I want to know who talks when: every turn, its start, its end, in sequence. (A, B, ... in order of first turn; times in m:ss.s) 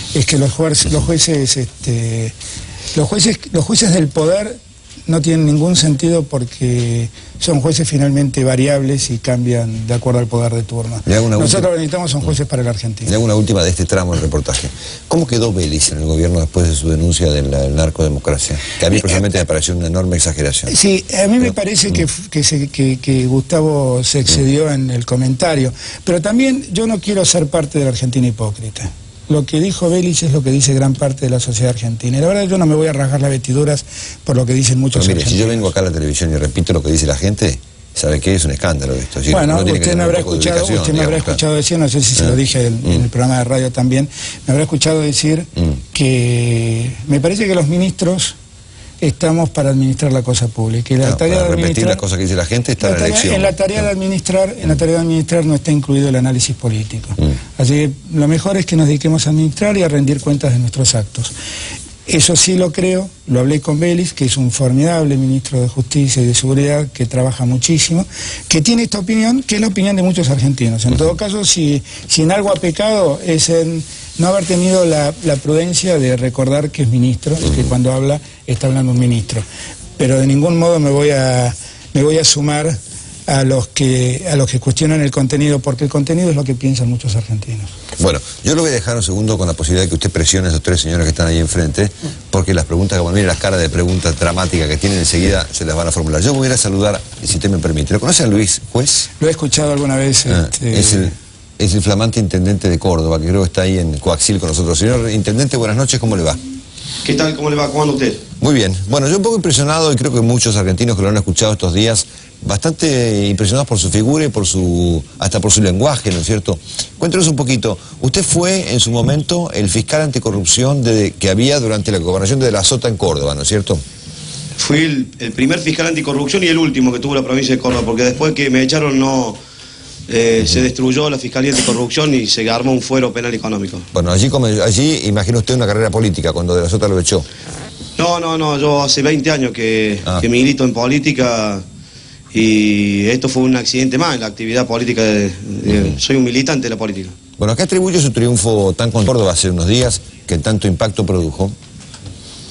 0:00.1-0:02.3 A
0:03.0-0:13.1 A
0:11.1-0:11.7 B
0:13.1-0:20.8 B
0:18.9-0:19.2 A
0:20.7-0:35.7 A
0:35.0-0:41.4 B
0:39.3-0:48.4 A
0:42.2-0:43.1 B
0:49.0-0:52.0 A
0:51.0-0:53.9 B
0:52.8-1:01.3 A
1:02.1-1:19.4 A
1:17.4-1:17.7 B
1:20.0-1:27.7 A
1:28.0-1:39.1 B
1:39.2-1:41.1 A
1:40.3-1:46.4 B
1:47.0-1:48.2 C
1:48.4-2:03.8 B
2:04.6-2:09.4 C
2:10.1-2:13.9 C
2:13.9-2:17.3 B
2:18.0-2:21.6 C
2:22.3-2:27.2 C
2:25.7-2:26.0 B
2:27.4-2:31.6 B